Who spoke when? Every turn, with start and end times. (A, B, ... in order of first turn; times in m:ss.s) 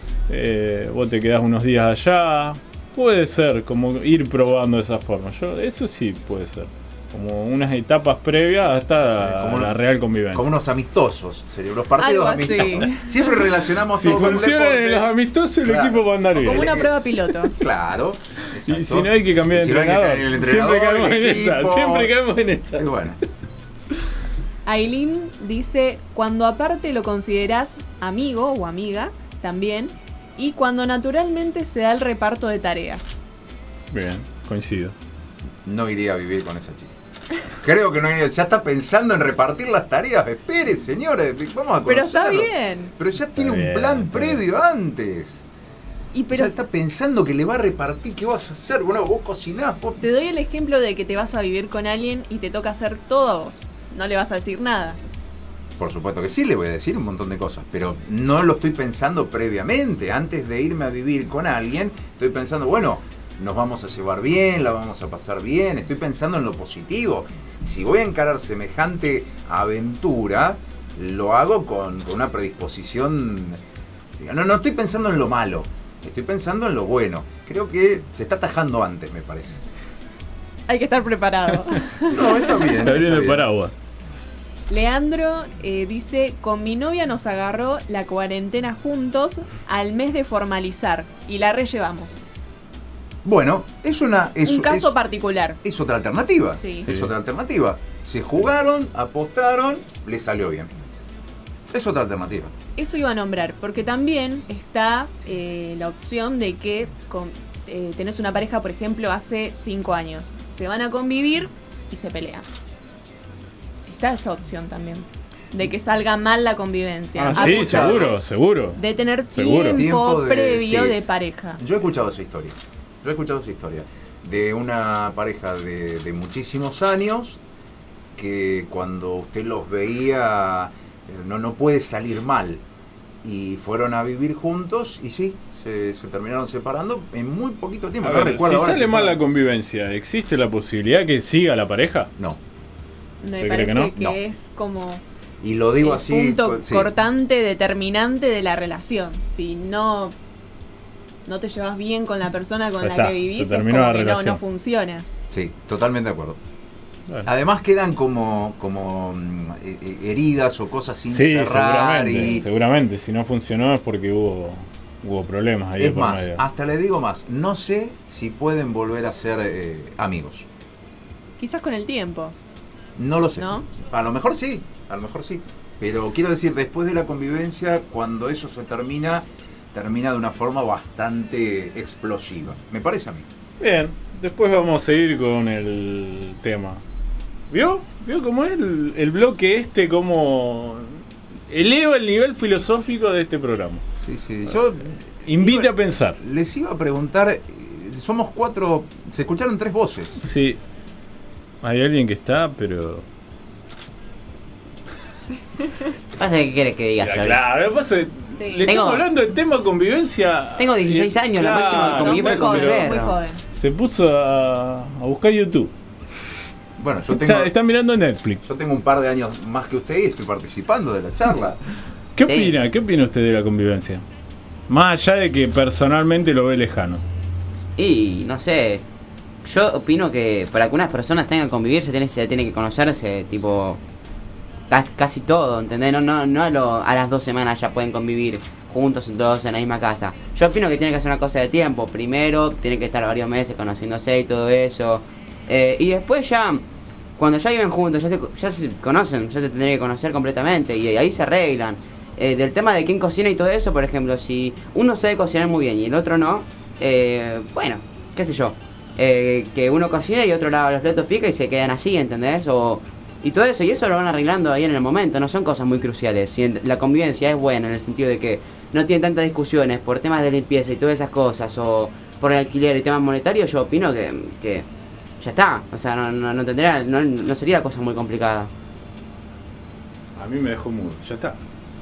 0:00.3-0:10.5 A
0:09.2-0:09.8 B
0:10.3-0:15.1 B
0:12.0-0:13.2 C
0:13.9-0:16.8 A
0:15.6-0:22.1 B
0:16.3-0:17.5 C
0:18.6-0:22.9 A
0:22.7-0:23.2 B
0:24.6-0:33.2 C
0:33.9-0:34.9 A
0:35.6-0:36.9 B
0:37.6-0:45.4 B
0:41.8-0:42.9 C
0:43.3-0:44.4 A
0:46.1-0:46.6 C
0:46.3-0:50.0 B
0:50.0-0:55.0 C
0:55.8-1:13.6 B
1:14.2-1:19.6 B
1:20.7-1:22.7 C
1:22.0-1:23.4 B
1:22.8-1:23.7 A
1:24.7-1:32.2 C
1:33.2-1:35.0 B
1:34.4-1:35.6 C
1:35.6-1:40.7 B
1:36.5-1:36.9 C
1:36.8-1:37.1 A
1:41.7-1:42.5 B
1:42.8-1:52.5 C
1:53.8-1:58.1 C
1:57.1-1:58.8 A
1:57.3-1:58.2 B
1:58.8-2:01.6 C
1:59.3-1:59.8 A
1:59.7-2:01.0 B
2:01.6-2:07.4 B
2:08.2-2:12.6 B
2:13.2-2:19.2 B
2:18.0-2:22.1 A
2:23.2-2:25.0 C
2:23.4-2:23.9 A
2:25.4-2:26.9 B
2:25.8-2:30.1 C
2:31.2-2:35.0 C
2:32.8-2:34.4 A
2:35.3-2:36.4 B
2:37.2-2:42.4 B
2:41.1-2:46.4 A
2:45.8-2:50.5 B
2:51.4-2:52.4 C
2:53.0-3:03.2 B
2:53.4-2:53.7 C
3:03.6-3:06.8 A
3:07.5-3:13.8 A
3:14.0-3:20.2 B
3:15.2-3:16.2 A
3:20.2-3:20.6 A
3:21.6-3:23.0 A
3:26.2-3:27.4 D
3:27.0-3:32.9 A
3:28.3-3:28.6 C
3:28.6-3:29.0 D
3:30.6-3:33.2 D
3:31.4-3:33.4 C
3:33.5-3:35.7 A
3:36.8-3:37.5 B
3:37.1-3:38.4 A
3:38.4-3:41.6 B
3:42.2-3:44.0 A
3:42.2-3:42.6 D
3:44.7-3:47.0 A
3:47.8-3:48.8 D
3:49.4-3:53.8 D
3:54.7-4:06.6 D
4:07.2-4:34.6 D
4:35.2-4:38.5 D
4:40.2-4:41.4 A